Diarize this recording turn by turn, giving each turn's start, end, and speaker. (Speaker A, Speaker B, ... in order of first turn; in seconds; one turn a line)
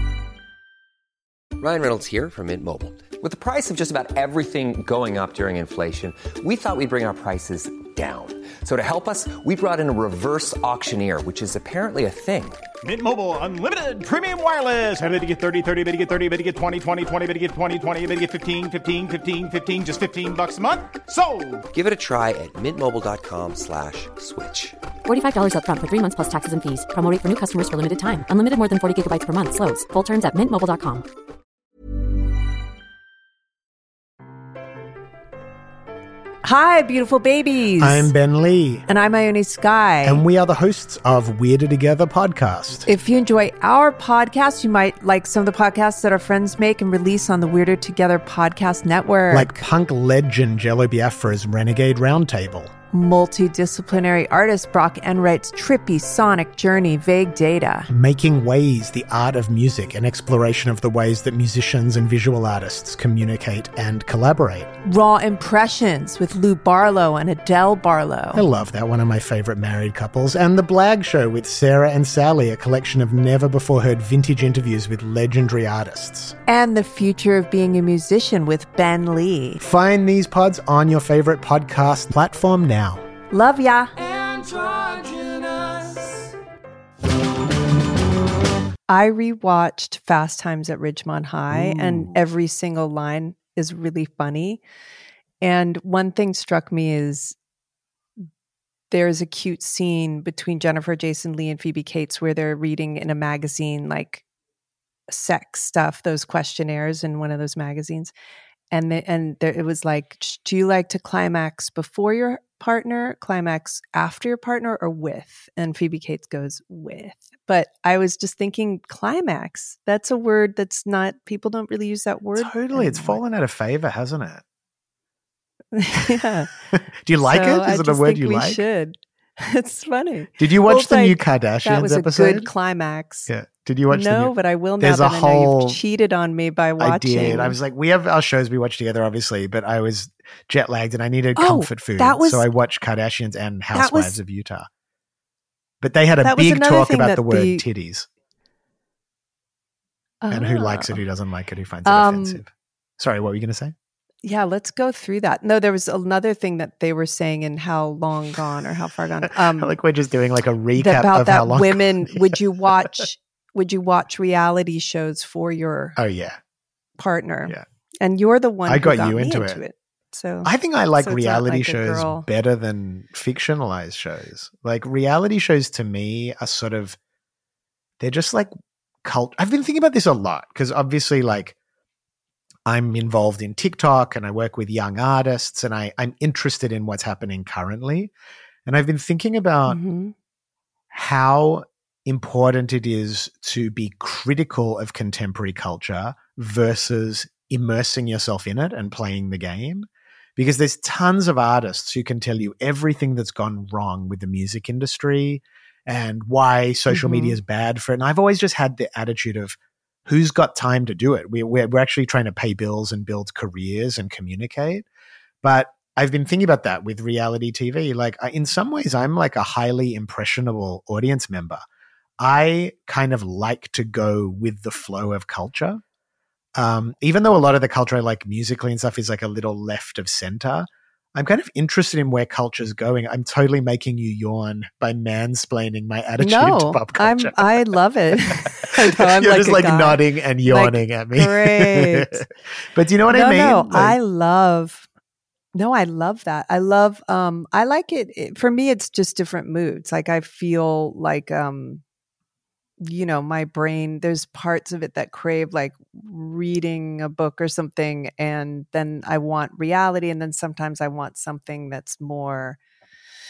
Speaker A: 1.6-12.6
Speaker B: 12.8-21.6
Speaker A: 21.7-24.8
Speaker C: 25.1-31.1
Speaker D: 36.4-38.1
Speaker E: 37.8-38.9
Speaker D: 38.9-40.2
Speaker E: 40.0-42.9
Speaker D: 42.9-49.6
Speaker E: 49.3-52.7
Speaker D: 52.9-57.9
Speaker E: 57.9-64.7
Speaker D: 64.8-68.4
Speaker E: 68.3-76.3
Speaker D: 76.5-79.6
Speaker E: 79.6-83.1
Speaker D: 83.3-83.9
Speaker B: 84.0-86.3
Speaker D: 88.9-94.6
Speaker E: 91.5-92.2
Speaker D: 95.4-97.4
Speaker D: 98.9-104.2
Speaker D: 105.1-108.1
Speaker D: 108.7-123.2
Speaker E: 122.3-124.4
Speaker D: 125.7-126.5
Speaker E: 126.7-128.6
Speaker D: 127.3-133.3
Speaker E: 130.4-132.5
Speaker E: 133.3-135.8
Speaker D: 133.9-137.6
Speaker E: 136.8-144.7
Speaker D: 141.4-142.4
Speaker D: 143.7-144.1
Speaker E: 145.8-148.1
Speaker D: 146.2-147.6
Speaker D: 150.2-151.0
Speaker E: 150.3-153.7
Speaker D: 151.8-152.4
Speaker D: 154.2-159.7
Speaker E: 159.5-162.4
Speaker D: 160.8-166.0
Speaker E: 166.0-166.4
Speaker D: 167.0-172.3
Speaker E: 168.7-169.6
Speaker E: 170.4-177.0
Speaker E: 178.0-178.5
Speaker E: 179.0-181.6
Speaker E: 182.7-188.1
Speaker E: 188.7-189.8
Speaker D: 189.7-190.1
Speaker E: 190.9-214.8
Speaker D: 206.9-207.4
Speaker E: 215.4-221.6
Speaker E: 222.2-225.8
Speaker E: 226.6-237.7
Speaker D: 236.2-242.2
Speaker E: 238.4-244.0
Speaker D: 243.1-244.9
Speaker D: 245.5-251.8
Speaker D: 252.8-262.6